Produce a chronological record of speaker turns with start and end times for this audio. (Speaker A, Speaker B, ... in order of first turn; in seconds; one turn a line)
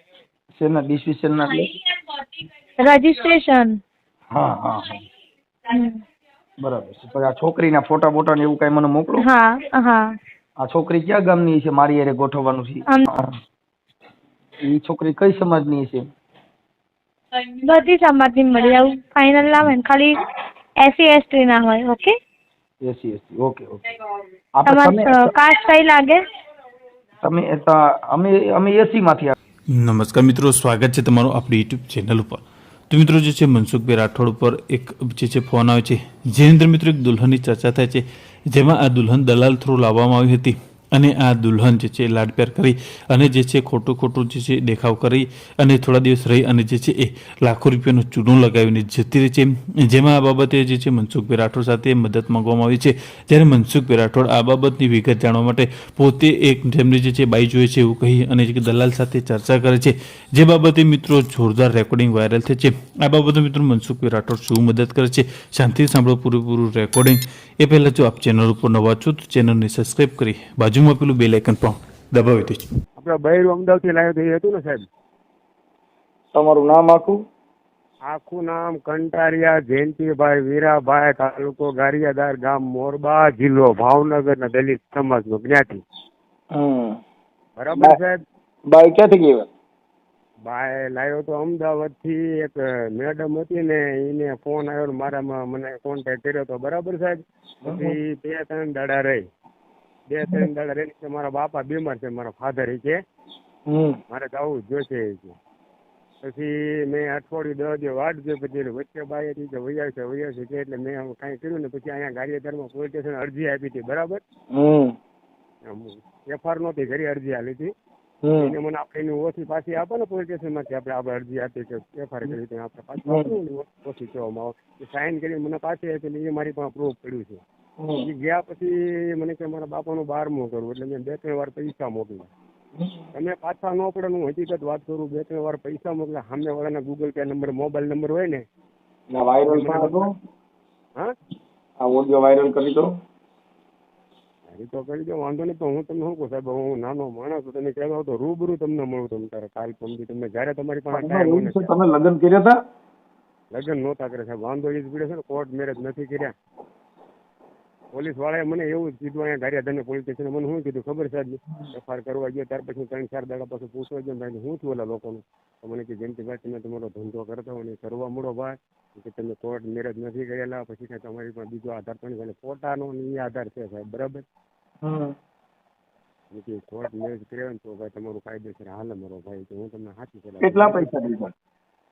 Speaker A: 0.5-1.7
Speaker B: 2.8-3.8
Speaker A: 4.3-5.0
Speaker B: 5.7-6.0
Speaker A: 6.6-9.2
Speaker B: 9.2-10.1
Speaker A: 10.6-13.4
Speaker A: 14.6-16.1
Speaker B: 17.5-20.2
Speaker B: 20.8-22.1
Speaker A: 22.8-23.8
Speaker A: 24.5-25.3
Speaker B: 24.6-26.2
Speaker A: 27.2-29.3
Speaker C: 29.7-72.7
Speaker D: 73.0-74.8
Speaker A: 76.3-77.2
Speaker D: 78.0-85.8
Speaker A: 86.5-87.0
Speaker D: 87.5-88.2
Speaker A: 88.7-89.5
Speaker D: 90.4-99.2
Speaker A: 97.6-98.0
Speaker D: 100.1-103.0
Speaker A: 103.7-104.0
Speaker D: 104.1-105.4
Speaker D: 106.2-114.2
Speaker A: 114.5-114.9
Speaker D: 115.6-117.7
Speaker A: 118.2-118.5
Speaker D: 118.4-127.4
Speaker A: 123.0-123.3
Speaker A: 127.8-128.1
Speaker D: 128.0-132.3
Speaker A: 132.8-133.0
Speaker D: 133.1-138.4
Speaker A: 139.1-140.1
Speaker D: 139.5-140.0
Speaker A: 141.8-142.9
Speaker D: 144.5-151.6
Speaker A: 150.9-152.6
Speaker D: 153.5-156.3
Speaker D: 157.9-174.2
Speaker A: 174.8-175.1
Speaker D: 176.3-180.9
Speaker A: 180.4-181.3